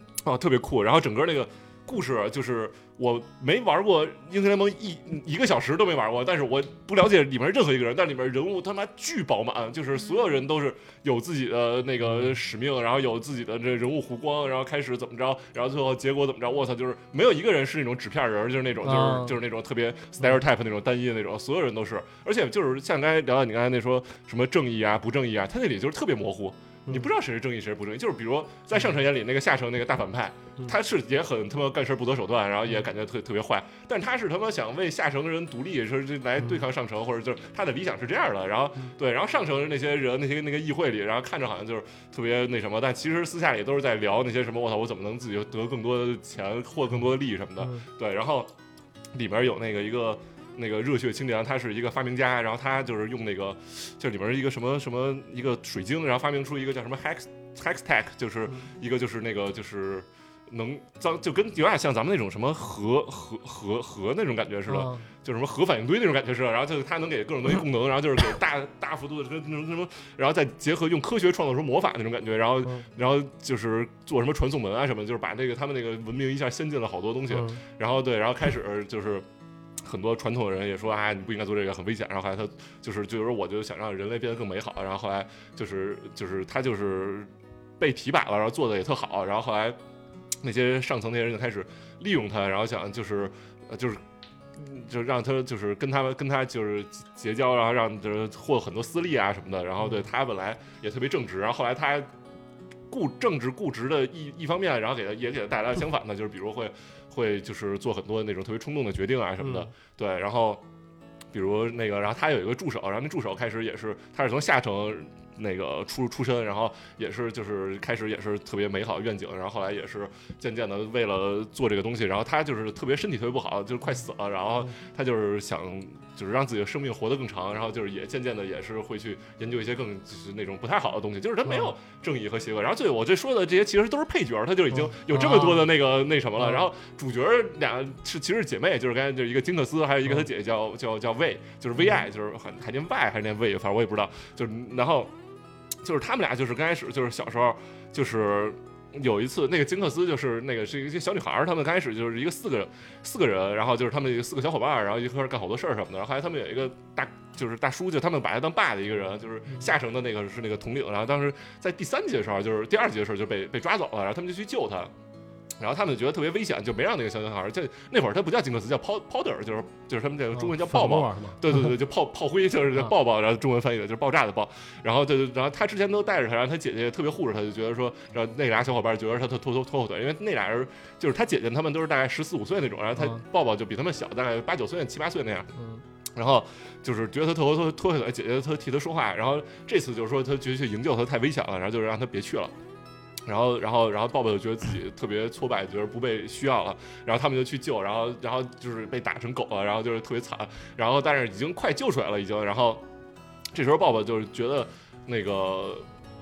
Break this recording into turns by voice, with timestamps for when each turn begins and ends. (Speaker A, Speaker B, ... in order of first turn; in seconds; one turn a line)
Speaker A: 0.2-48.5
Speaker B: 18.8-19.4
Speaker B: 47.6-47.9
Speaker A: 49.1-79.3
Speaker B: 64.7-65.1
Speaker B: 77.3-77.6
Speaker A: 79.8-89.8
Speaker A: 90.4-94.0
Speaker A: 94.6-102.1
Speaker A: 102.9-110.6
Speaker B: 109.4-109.7
Speaker A: 111.3-145.1
Speaker B: 131.4-131.7
Speaker B: 134.7-135.7
Speaker B: 136.4-136.7
Speaker A: 145.8-164.9
Speaker A: 165.6-185.5
Speaker B: 170.3-171.7
Speaker B: 183.0-183.2
Speaker B: 185.6-185.8
Speaker A: 186.1-192.6
Speaker A: 193.3-202.8
Speaker A: 203.5-205.9